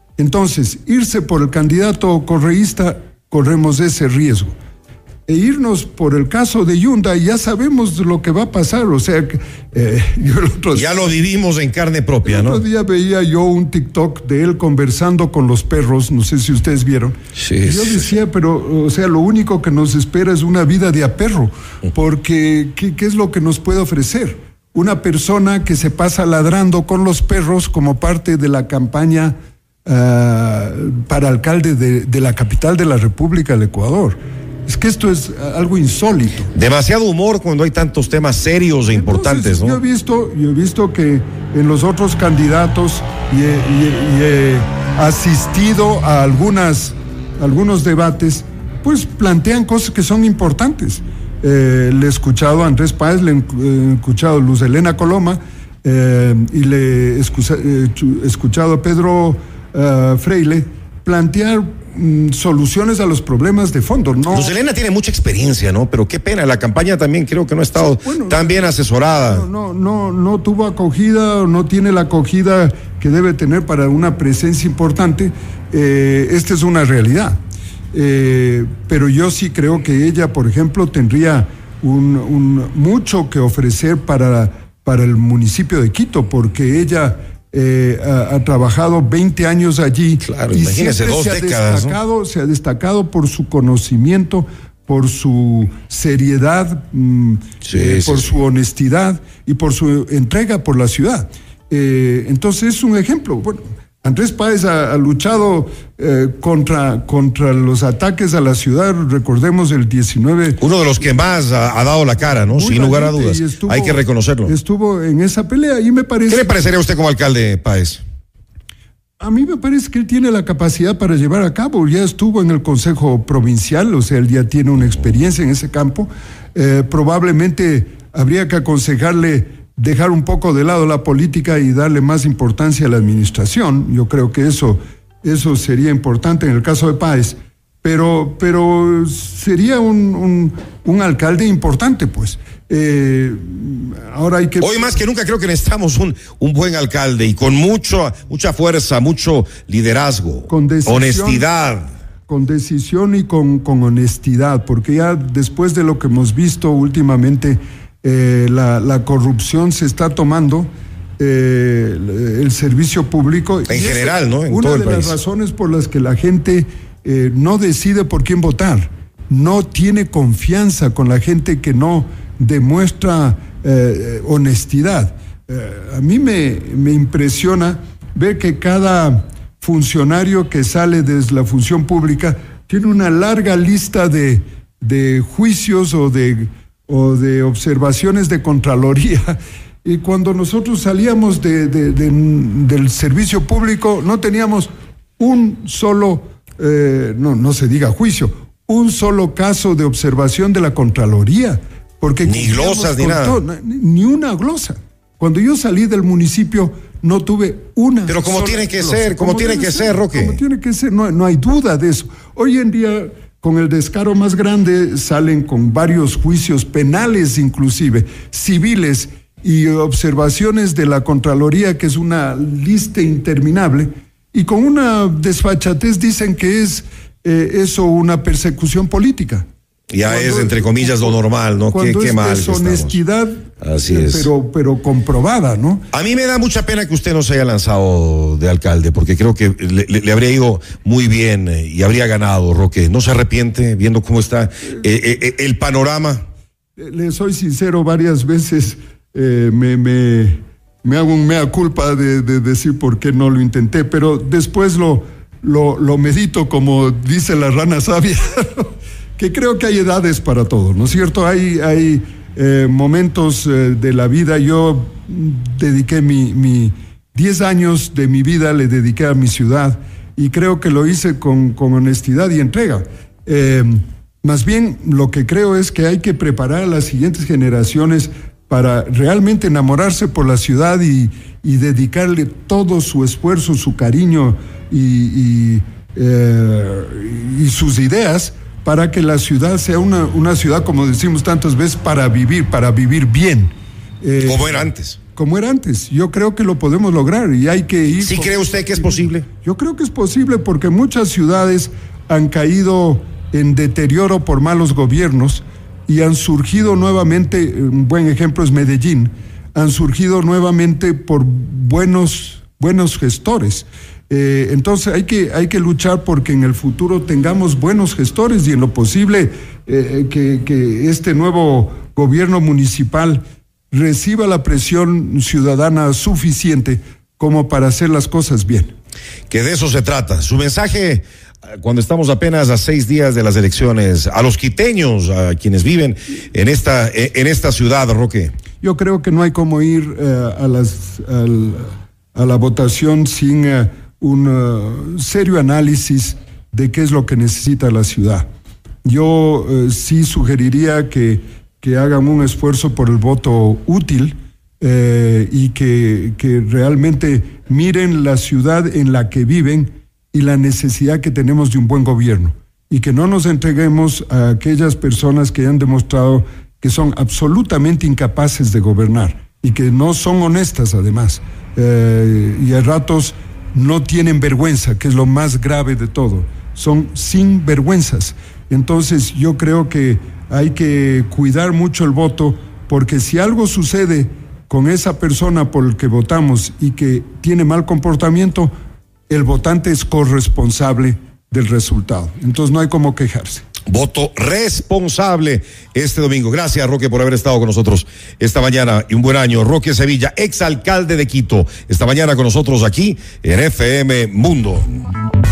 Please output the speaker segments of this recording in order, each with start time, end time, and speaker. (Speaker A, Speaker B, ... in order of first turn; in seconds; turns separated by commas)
Speaker A: 0.2-4.5, Speaker A: 5.3-11.1, Speaker B: 10.7-12.6, Speaker A: 12.2-36.5, Speaker B: 17.4-18.1, Speaker B: 36.5-39.8, Speaker A: 38.9-64.5, Speaker B: 64.3-69.5, Speaker A: 67.8-77.4, Speaker A: 77.9-110.6, Speaker B: 90.2-92.0, Speaker B: 97.6-98.3, Speaker B: 110.6-114.5, Speaker A: 112.5-116.5, Speaker B: 116.3-118.0, Speaker A: 119.2-145.0, Speaker B: 144.6-151.9, Speaker A: 150.5-151.4, Speaker A: 152.3-229.5, Speaker B: 163.7-165.2, Speaker B: 202.2-203.4, Speaker B: 208.1-210.4, Speaker B: 229.9-233.0, Speaker A: 230.0-231.2, Speaker A: 231.7-235.8, Speaker B: 233.6-234.3, Speaker B: 235.9-246.2, Speaker A: 246.8-293.5, Speaker A: 294.0-294.6, Speaker B: 294.2-295.0, Speaker A: 295.1-328.7, Speaker B: 298.0-299.3, Speaker B: 329.3-338.3, Speaker A: 338.6-348.3, Speaker A: 348.8-388.5, Speaker A: 389.1-393.5, Speaker B: 393.6-404.8